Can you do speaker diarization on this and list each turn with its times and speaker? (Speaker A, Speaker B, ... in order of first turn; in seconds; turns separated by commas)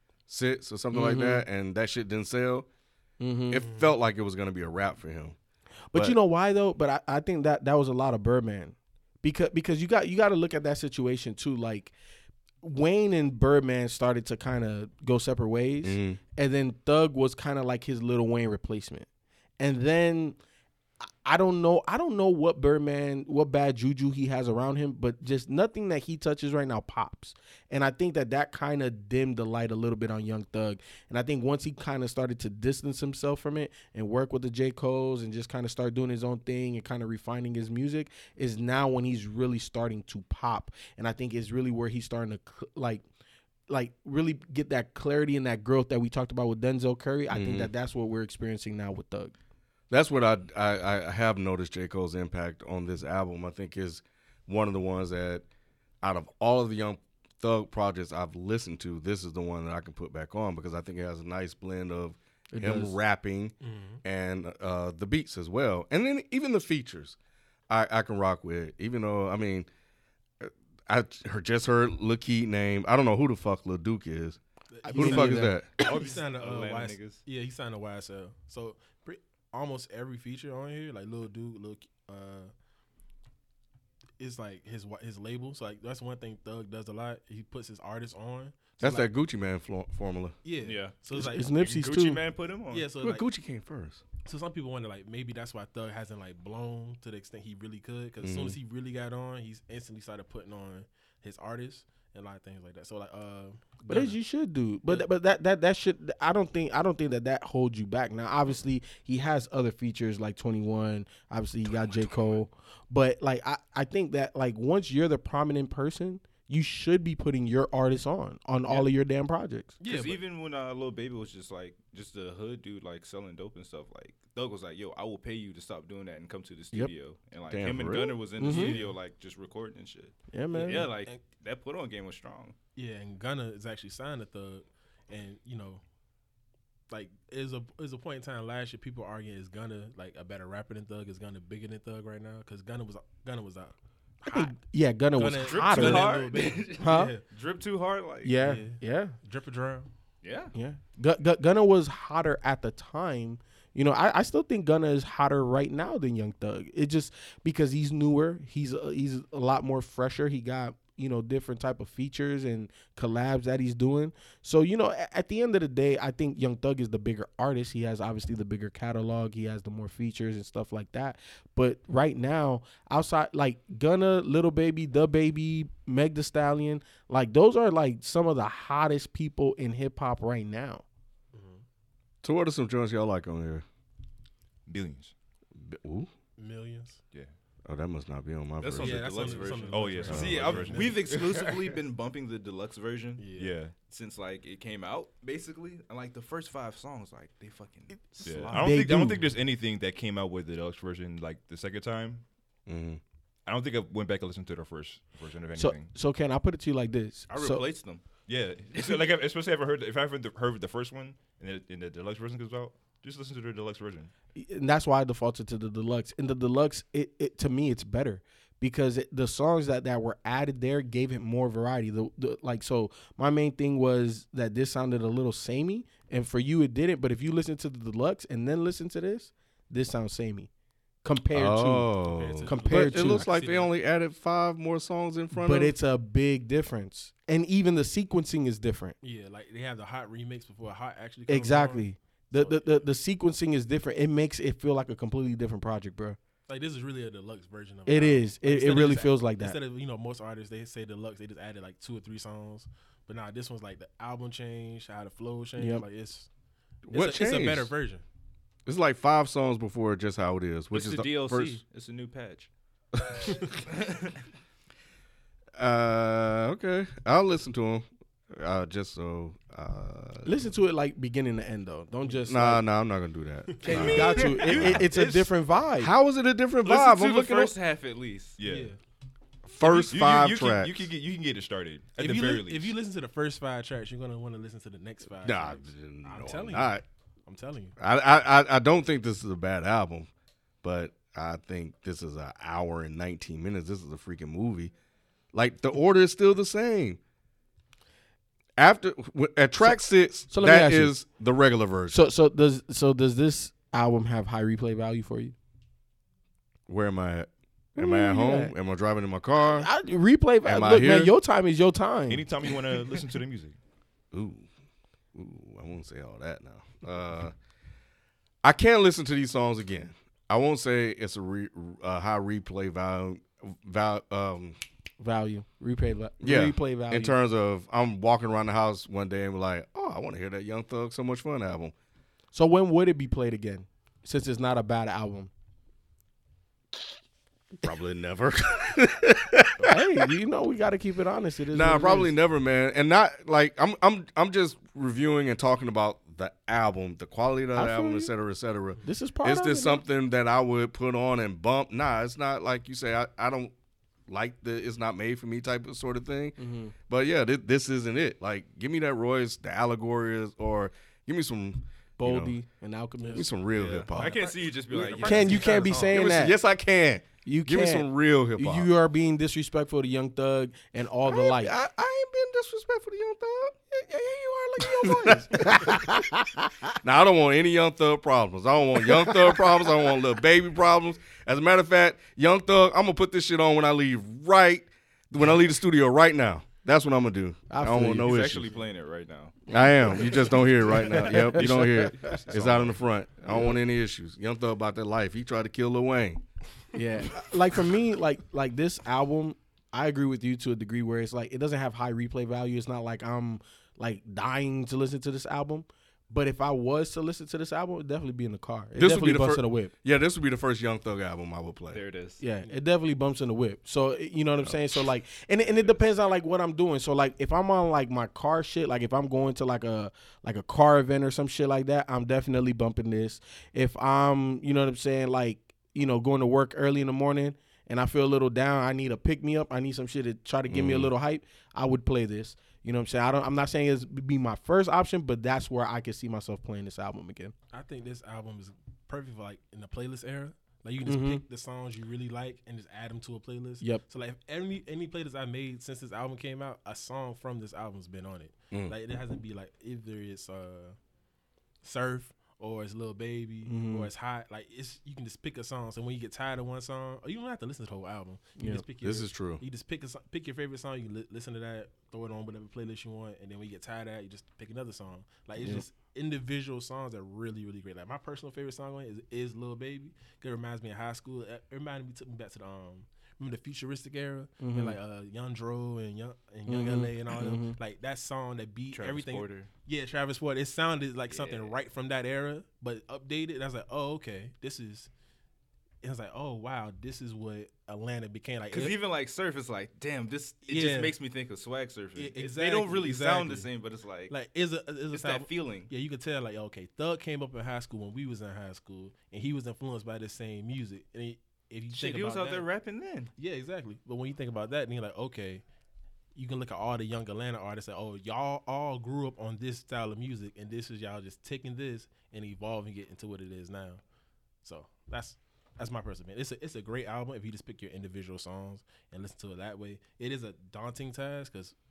Speaker A: 0.3-2.7, Speaker B: 0.9-1.4, Speaker B: 3.2-3.7, Speaker A: 3.5-5.3, Speaker C: 3.6-3.9, Speaker B: 5.9-11.9, Speaker B: 12.6-19.1, Speaker A: 15.8-16.2, Speaker B: 19.6-20.4, Speaker B: 21.2-43.0, Speaker B: 43.7-49.3, Speaker A: 47.3-47.7, Speaker A: 49.9-55.4, Speaker A: 56.0-67.2, Speaker B: 62.5-63.0, Speaker C: 63.6-64.0, Speaker A: 67.7-69.7, Speaker A: 70.4-75.7, Speaker C: 74.7-82.5, Speaker B: 74.9-75.5, Speaker D: 75.8-77.2, Speaker C: 84.2-89.1, Speaker A: 88.8-90.3, Speaker C: 90.4-91.5, Speaker D: 90.6-92.9, Speaker B: 91.1-92.2, Speaker C: 92.7-93.2, Speaker A: 93.0-94.0, Speaker C: 94.2-104.2, Speaker A: 98.2-98.6, Speaker B: 103.9-119.8, Speaker C: 119.8-120.2, Speaker D: 119.8-132.6, Speaker A: 127.5-128.2, Speaker B: 128.4-128.8, Speaker C: 128.4-128.9, Speaker B: 130.3-130.9, Speaker C: 130.5-131.2, Speaker C: 132.7-135.8, Speaker C: 136.9-144.5, Speaker B: 144.2-146.2, Speaker C: 145.1-147.2, Speaker D: 145.4-148.4, Speaker B: 146.8-147.2, Speaker B: 148.2-149.2, Speaker C: 148.4-149.9, Speaker D: 150.2-150.5, Speaker B: 150.5-180.8, Speaker C: 181.3-181.6, Speaker A: 182.2-183.6, Speaker E: 184.7-185.1, Speaker A: 185.6-186.1, Speaker C: 186.4-187.0, Speaker A: 187.7-189.5, Speaker D: 188.6-193.3, Speaker C: 188.8-191.3, Speaker E: 189.7-191.4, Speaker A: 190.1-190.6, Speaker C: 193.2-193.6, Speaker E: 193.3-193.7, Speaker D: 193.8-198.8, Speaker E: 198.2-202.2, Speaker B: 198.5-199.3, Speaker A: 202.7-203.0, Speaker E: 203.4-205.9, Speaker B: 205.5-207.6, Speaker D: 207.3-208.1, Speaker E: 208.3-214.1, Speaker D: 208.7-209.1, Speaker B: 214.3-230.5, Speaker B: 231.0-231.9, Speaker A: 231.3-235.7, Speaker C: 232.1-233.7, Speaker B: 232.4-233.2, Speaker B: 235.3-238.9, Speaker C: 239.0-242.9, Speaker B: 241.3-246.2, Speaker C: 246.5-256.3, Speaker B: 247.9-249.6, Speaker B: 255.6-255.8, Speaker A: 256.9-257.7, Speaker C: 256.9-258.0, Speaker A: 258.6-261.6, Speaker D: 260.7-262.5, Speaker A: 263.1-263.4, Speaker D: 263.5-264.2, Speaker A: 265.6-270.5, Speaker B: 270.2-272.6, Speaker A: 272.2-274.9, Speaker C: 273.5-274.5, Speaker B: 273.6-275.9, Speaker D: 273.6-275.0, Speaker E: 274.4-274.8, Speaker A: 275.8-277.5, Speaker D: 276.6-278.4, Speaker E: 278.4-278.7, Speaker C: 278.4-278.8, Speaker A: 279.4-280.9, Speaker E: 279.6-282.8, Speaker C: 282.0-287.7, Speaker A: 285.2-286.8, Speaker A: 287.8-290.1, Speaker A: 290.6-294.7, Speaker A: 295.3-297.0, Speaker A: 298.6-302.1, Speaker B: 299.6-300.9, Speaker B: 301.9-305.3, Speaker A: 306.7-309.7, Speaker B: 307.8-308.5, Speaker B: 309.4-312.4, Speaker A: 310.4-311.1, Speaker E: 312.1-313.6, Speaker A: 314.1-314.5, Speaker A: 315.1-317.3, Speaker A: 318.4-324.6, Speaker B: 325.0-327.1, Speaker A: 326.2-331.7, Speaker B: 332.3-335.3, Speaker A: 337.6-340.1, Speaker B: 339.6-342.1, Speaker A: 341.5-353.5, Speaker B: 347.5-348.1, Speaker B: 348.8-349.8, Speaker A: 354.1-362.4, Speaker B: 356.4-356.7, Speaker B: 362.0-363.3, Speaker A: 363.1-364.2, Speaker D: 363.5-365.9, Speaker C: 364.0-366.0, Speaker B: 364.9-366.4, Speaker A: 365.9-368.7, Speaker B: 367.2-371.5, Speaker A: 371.0-375.9, Speaker B: 374.5-376.7, Speaker A: 376.8-388.5, Speaker B: 379.0-379.3, Speaker B: 387.5-388.1, Speaker D: 387.9-392.7, Speaker A: 389.5-396.2, Speaker B: 390.7-392.2, Speaker E: 392.3-392.7, Speaker B: 393.3-393.6, Speaker B: 396.7-409.7, Speaker A: 408.8-411.8, Speaker D: 411.7-412.2, Speaker B: 412.2-437.3, Speaker A: 430.5-430.9, Speaker C: 437.5-450.8, Speaker B: 440.8-441.2, Speaker C: 451.6-484.9, Speaker B: 453.4-453.9, Speaker B: 458.4-458.6, Speaker A: 458.8-459.4, Speaker B: 465.4-465.6, Speaker B: 474.4-474.8, Speaker B: 476.5-477.6, Speaker D: 478.7-479.5, Speaker D: 481.1-481.5, Speaker C: 485.8-488.7, Speaker D: 488.5-494.1, Speaker C: 490.4-490.9, Speaker C: 491.9-493.5, Speaker C: 494.1-502.4, Speaker D: 494.9-495.7, Speaker D: 501.7-503.1, Speaker C: 503.1-505.4, Speaker C: 506.1-513.8, Speaker C: 514.4-521.5